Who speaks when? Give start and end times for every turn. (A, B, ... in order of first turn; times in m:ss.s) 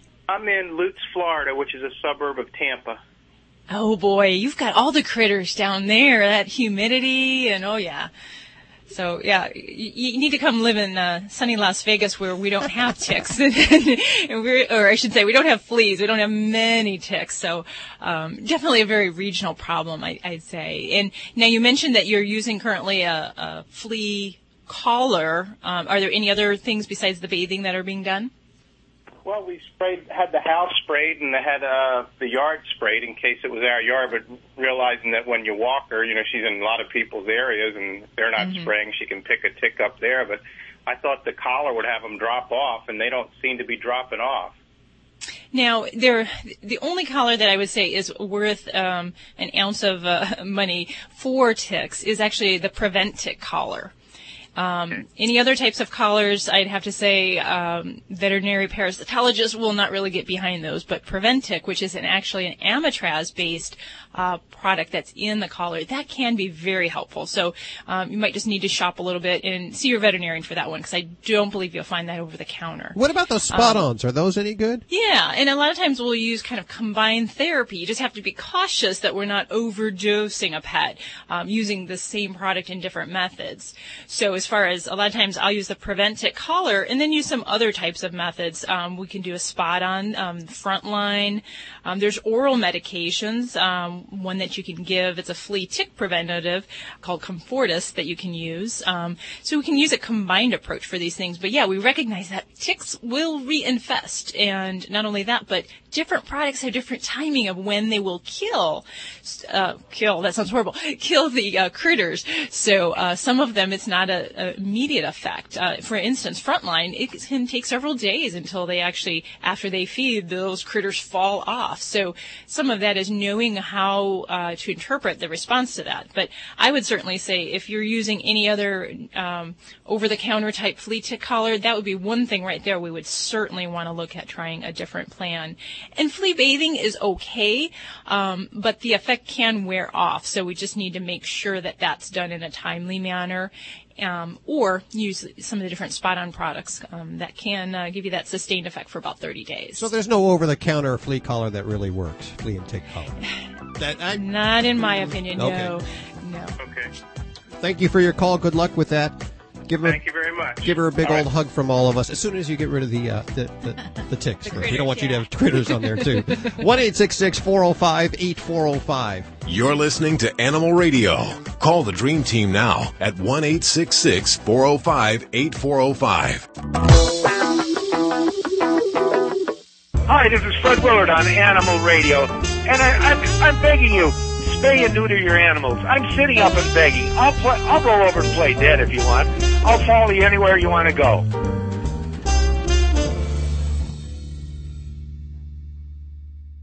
0:00.3-0:03.0 A
0:03.7-0:08.1 B
0:08.9-0:28.3 B
0:29.3-0:44.5 A
0:38.4-0:38.7 B
0:45.5-0:53.9 B
0:54.6-1:13.0 B
1:12.9-1:14.8 C
1:13.5-1:13.9 B
1:14.9-2:29.9 B
2:29.8-2:33.1 C
2:33.8-2:34.2 C
2:34.1-2:36.5 B
2:35.0-2:35.7 C
2:36.6-2:36.9 A
2:37.6-2:40.0 C
2:39.8-2:41.2 A
2:40.6-2:49.3 C
2:44.4-2:46.3 B
2:49.4-2:56.4 D
3:00.1-3:11.2 E